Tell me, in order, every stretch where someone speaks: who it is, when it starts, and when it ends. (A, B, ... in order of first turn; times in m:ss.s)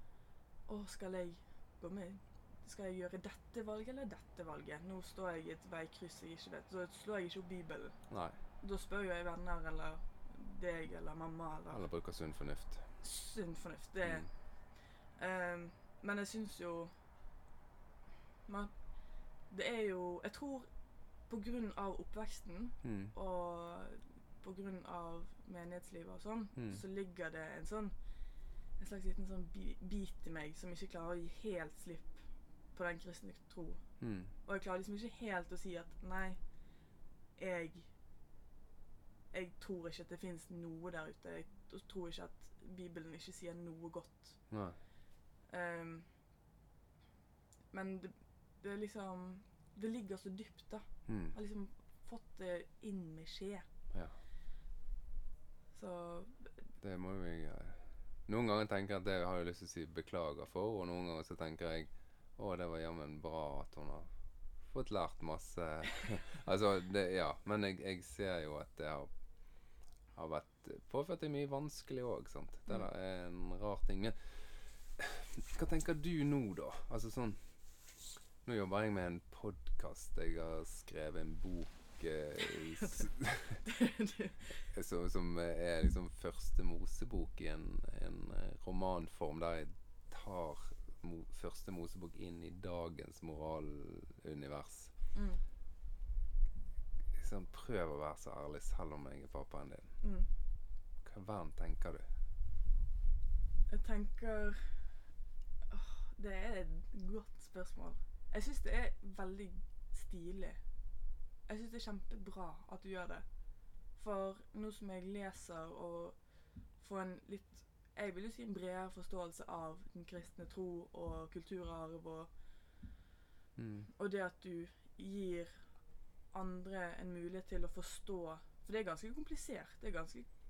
0:00.7-0:08.0 A
0:08.1-0:08.4 B
0:08.6-0:11.8 A
0:11.7-0:12.9 B
0:13.0-0:14.3 A
0:14.0-0:14.3 B
0:15.2-0:16.9 A
0:18.5-0:18.8 A
0:19.5-0:20.7 A
0:21.3-0:28.0 A
0:22.8-0:23.1 B
0:26.6-0:26.8 B
0:28.8-0:32.2 A
0:32.8-0:33.8 A
0:34.0-0:34.3 B
0:34.4-0:36.4 A
0:37.4-0:37.9 A
0:39.3-0:44.4 A
0:44.5-0:44.8 B
0:45.5-0:46.1 A
0:47.7-0:53.7 A
0:51.1-0:51.4 B
0:53.9-0:54.2 B
0:55.7-0:56.6 A
0:56.8-1:04.1 B
1:04.7-1:09.1 B
1:10.2-1:17.5 B
1:18.4-1:23.7 B
1:22.5-1:23.1 A
1:23.6-1:24.7 A
1:24.6-1:34.9 B
1:35.1-1:35.4 A
1:37.1-1:39.9 B
1:40.0-1:40.3 A
1:41.0-1:42.1 B
1:43.7-1:45.0 A
1:45.7-1:50.6 A
1:51.5-1:53.2 A
1:54.0-1:56.2 A
1:56.8-2:02.3 A
2:03.6-2:03.9 B
2:03.9-2:05.6 A
2:06.3-2:10.3 A